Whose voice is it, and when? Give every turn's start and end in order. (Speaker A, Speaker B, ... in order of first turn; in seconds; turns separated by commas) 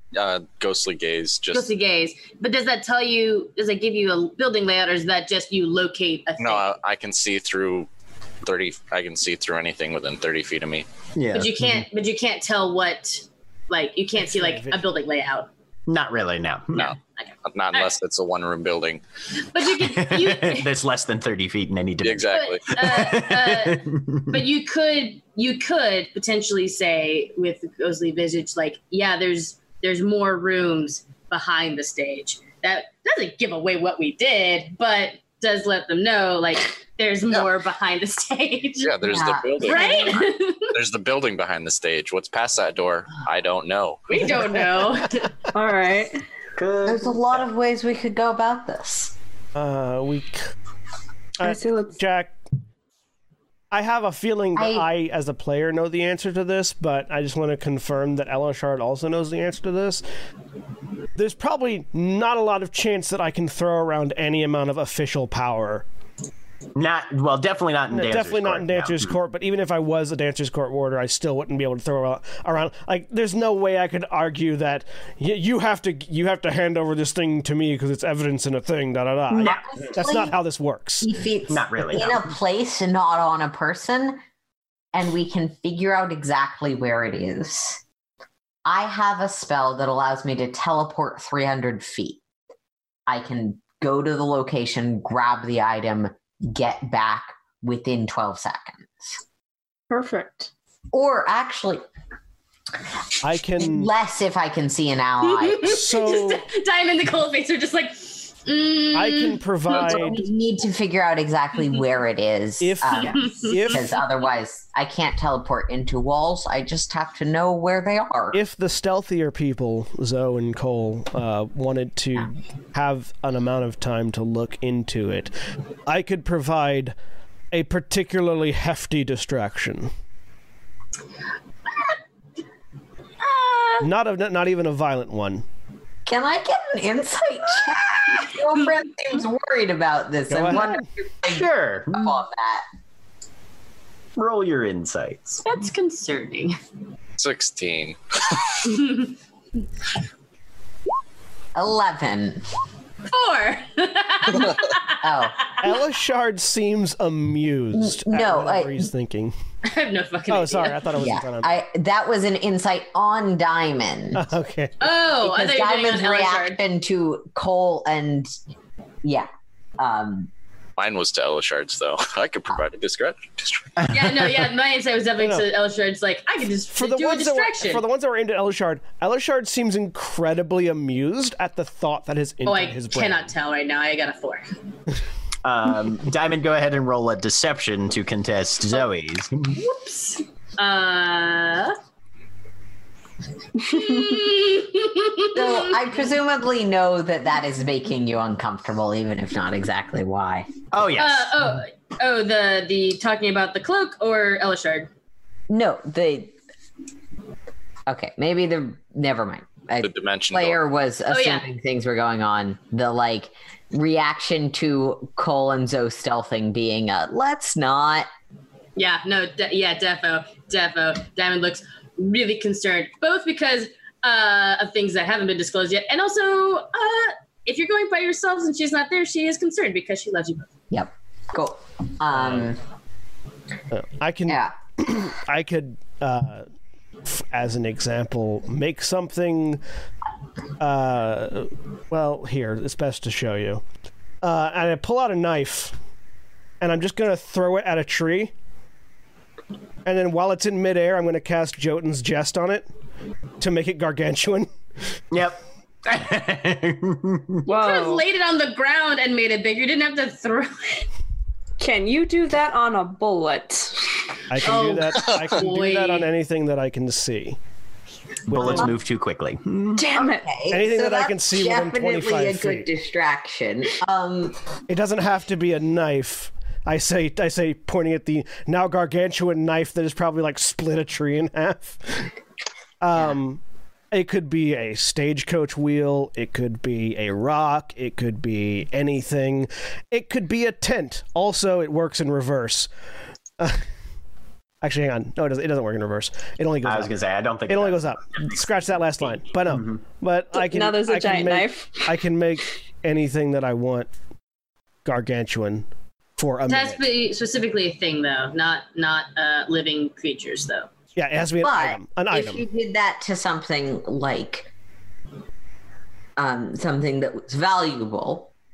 Speaker A: 0.1-1.7, Speaker B: 1.5-6.7, Speaker A: 6.4-7.9, Speaker A: 8.4-10.8, Speaker C: 11.1-11.9, Speaker B: 11.3-15.5, Speaker D: 14.2-14.8, Speaker C: 15.9-16.9, Speaker A: 16.7-19.0, Speaker B: 17.1-17.9, Speaker B: 19.5-20.7, Speaker C: 19.8-24.4, Speaker A: 22.0-22.8, Speaker B: 22.3-39.0, Speaker A: 38.8-44.8, Speaker E: 39.0-39.9, Speaker B: 39.6-40.7, Speaker B: 44.1-45.3, Speaker F: 45.5-46.2, Speaker C: 46.5-47.4, Speaker E: 46.8-49.1, Speaker D: 49.5-50.5, Speaker D: 51.4-52.4, Speaker F: 51.4-52.0, Speaker D: 53.7-60.0, Speaker E: 54.5-54.9, Speaker D: 61.1-65.8, Speaker C: 66.8-69.2, Speaker D: 67.9-81.1, Speaker E: 79.3-80.3, Speaker E: 81.0-84.2, Speaker C: 81.5-82.3, Speaker E: 84.9-87.8, Speaker E: 88.6-92.2, Speaker E: 93.1-99.1, Speaker F: 99.9-100.5, Speaker E: 100.9-101.8, Speaker D: 103.2-103.9, Speaker E: 103.6-105.8, Speaker B: 105.2-110.1, Speaker D: 105.6-106.5, Speaker D: 108.9-110.2, Speaker E: 109.7-118.4, Speaker D: 112.6-113.8, Speaker B: 113.1-113.8, Speaker D: 118.3-125.3, Speaker D: 125.9-126.9, Speaker D: 127.5-129.9, Speaker B: 133.2-133.8, Speaker D: 133.8-135.4, Speaker E: 136.1-142.6, Speaker D: 140.3-140.8, Speaker C: 141.2-142.1, Speaker C: 144.2-145.4, Speaker B: 145.4-146.6, Speaker A: 147.2-148.8, Speaker B: 148.7-149.1, Speaker E: 151.5-152.4, Speaker B: 153.1-155.6, Speaker E: 155.0-155.4, Speaker D: 155.6-159.3, Speaker E: 157.7-158.9, Speaker B: 159.6-161.0, Speaker D: 160.3-161.6, Speaker E: 161.0-164.2, Speaker D: 164.1-164.8, Speaker B: 164.8-166.6, Speaker E: 165.2-168.3, Speaker E: 169.0-170.3, Speaker A: 170.8-173.8, Speaker C: 173.8-174.4, Speaker B: 173.9-177.8, Speaker D: 176.7-183.3, Speaker B: 182.4-184.5, Speaker C: 185.4-189.6, Speaker B: 189.5-191.8, Speaker B: 193.6-196.0, Speaker E: 195.3-200.5, Speaker C: 200.7-201.6, Speaker B: 200.9-204.9, Speaker E: 205.5-206.3, Speaker E: 207.9-218.1, Speaker A: 209.8-210.6, Speaker B: 211.1-211.5, Speaker B: 218.8-230.5, Speaker E: 230.7-232.6, Speaker D: 232.1-232.5, Speaker D: 233.7-236.4, Speaker E: 234.3-234.5, Speaker D: 237.1-239.6, Speaker D: 240.6-243.6, Speaker D: 244.2-245.7, Speaker D: 246.6-248.3, Speaker D: 249.8-252.7, Speaker D: 253.4-254.5, Speaker C: 255.1-257.4, Speaker F: 257.4-258.1, Speaker B: 257.4-260.9, Speaker F: 261.6-264.0, Speaker D: 264.3-267.4, Speaker B: 264.4-266.1, Speaker D: 268.3-268.7, Speaker C: 268.3-269.8, Speaker F: 269.7-270.3, Speaker E: 269.9-274.4, Speaker D: 270.5-272.7, Speaker D: 274.7-282.1, Speaker D: 282.8-283.4, Speaker D: 283.9-292.7, Speaker D: 294.6-296.9, Speaker C: 296.6-298.6, Speaker D: 297.5-303.9, Speaker C: 299.5-299.8, Speaker F: 300.3-301.8, Speaker D: 304.8-305.7, Speaker D: 306.2-306.9, Speaker B: 306.5-310.7, Speaker D: 311.0-312.4, Speaker E: 311.4-314.5, Speaker E: 316.2-318.3